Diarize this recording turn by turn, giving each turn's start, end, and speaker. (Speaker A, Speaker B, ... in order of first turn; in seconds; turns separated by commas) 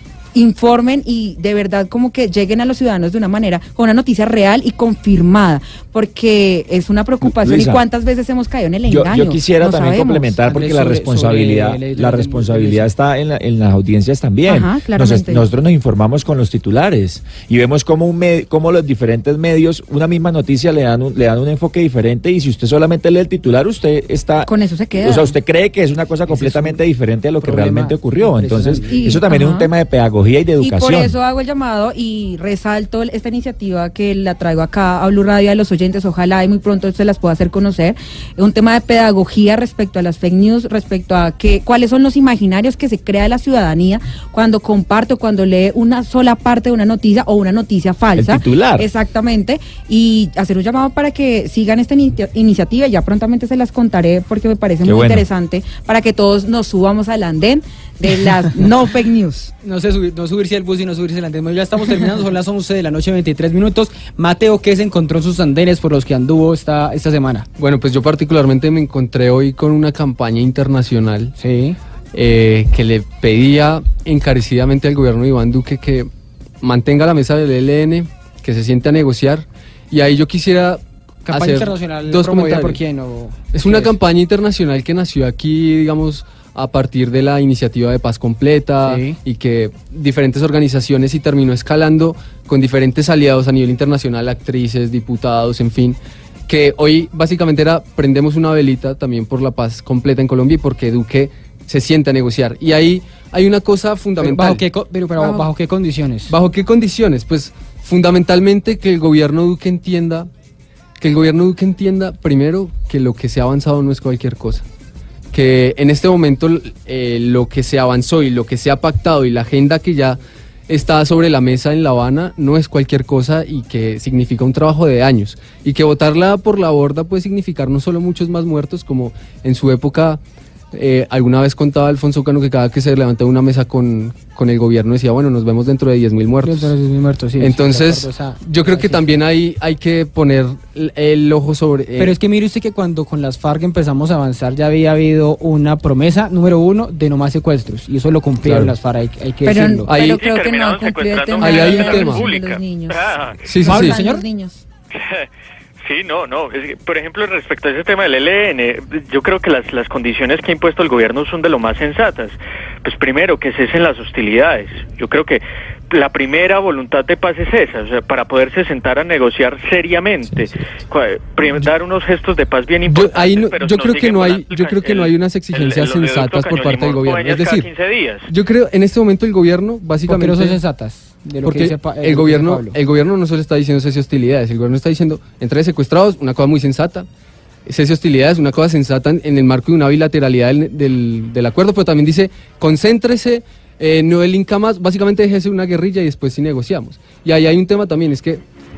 Speaker A: 0.3-10.3, Speaker B: 7.2-7.8, Speaker B: 8.9-31.1, Speaker C: 10.5-12.9, Speaker A: 14.5-15.4, Speaker A: 24.4-25.3, Speaker C: 26.3-26.8, Speaker C: 27.4-29.2, Speaker A: 28.8-29.7, Speaker A: 30.6-59.5, Speaker B: 48.1-48.9, Speaker B: 54.8-55.2, Speaker C: 59.6-67.5, Speaker D: 67.6-71.3, Speaker C: 71.4-71.8, Speaker D: 72.1-76.1, Speaker D: 76.6-82.8, Speaker C: 81.3-84.0, Speaker D: 83.5-104.6, Speaker C: 88.8-89.2, Speaker C: 104.2-106.3, Speaker A: 105.2-105.5, Speaker D: 106.3-110.3, Speaker D: 111.0-114.6, Speaker D: 115.3-130.2, Speaker D: 130.7-136.7, Speaker C: 136.4-139.1, Speaker D: 137.4-142.2, Speaker C: 141.9-149.9, Speaker B: 148.4-148.7, Speaker A: 149.4-154.6, Speaker D: 149.9-150.2, Speaker E: 149.9-153.4, Speaker D: 151.4-152.2, Speaker D: 153.4-154.0, Speaker C: 153.6-154.2, Speaker E: 154.9-155.3, Speaker E: 155.8-178.3, Speaker D: 172.9-177.7, Speaker D: 178.3-180.6, Speaker C: 180.0-182.8, Speaker D: 181.4-187.1, Speaker D: 187.7-198.4